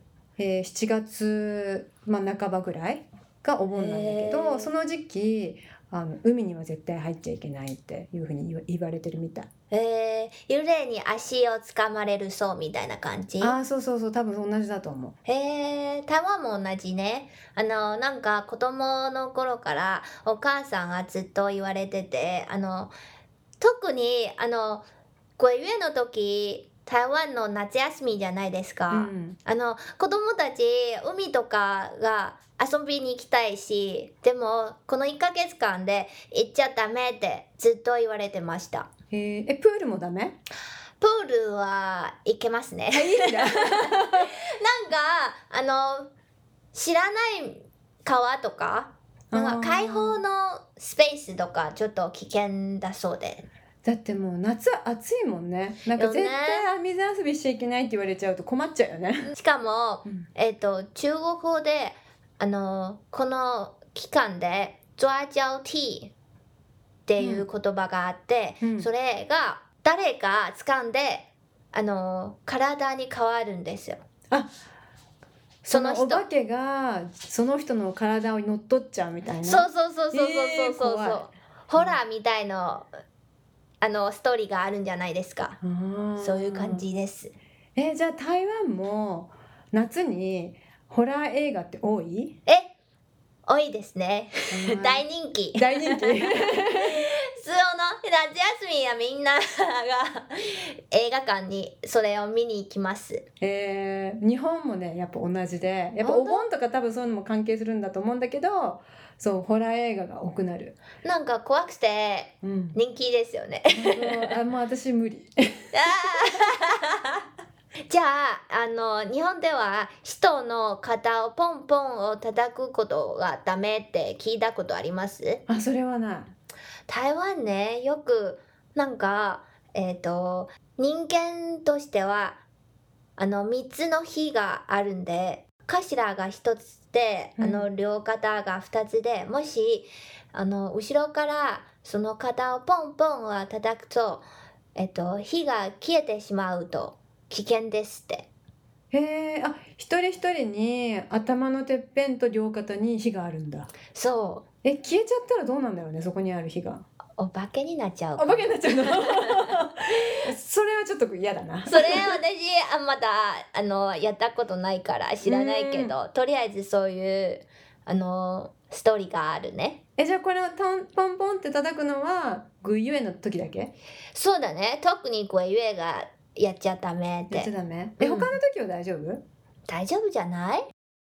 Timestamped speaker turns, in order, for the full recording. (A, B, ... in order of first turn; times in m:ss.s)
0:00.4-0:09.5 A
0:03.7-0:04.7 B
0:09.7-0:13.6 B
0:13.4-0:15.2 A
0:15.2-0:22.9 B
0:23.6-0:24.8 B
0:25.4-0:38.9 B
0:28.9-0:29.4 A
0:39.1-0:40.4 A
0:41.0-0:46.1 B
0:42.9-0:44.3 A
0:46.7-0:53.5 B
0:49.3-0:50.2 A
0:53.8-0:59.3 A
0:56.0-0:56.7 B
0:59.3-1:06.1 B
1:07.1-1:14.0 B
1:07.2-1:07.4 A
1:08.6-1:08.9 A
1:15.6-1:22.0 A
1:15.7-1:16.2 B
1:19.4-1:22.9 B
1:23.8-1:25.6 B
1:25.6-1:26.8 A
1:26.2-1:27.3 B
1:27.8-1:32.4 A
1:32.4-1:32.7 B
1:33.4-1:43.2 B
1:34.5-1:37.0 A
1:43.4-1:50.8 A
1:46.0-1:46.5 B
1:51.0-1:54.3 B
1:52.4-1:52.8 A
1:53.7-1:56.2 A
1:55.7-1:57.2 B
1:57.9-2:05.4 B
2:05.5-2:06.3 A
2:06.9-2:12.4 B
2:13.2-2:28.3 B
2:17.4-2:17.7 A
2:28.9-2:33.7 A
2:33.9-2:34.4 B
2:34.6-2:36.8 A
2:37.2-2:39.4 B
2:38.2-2:42.2 A
2:41.7-2:49.8 B
2:45.2-2:45.9 A
2:50.0-2:53.7 A
2:54.1-2:58.4 B
2:57.3-2:59.2 A
2:59.7-3:00.7 B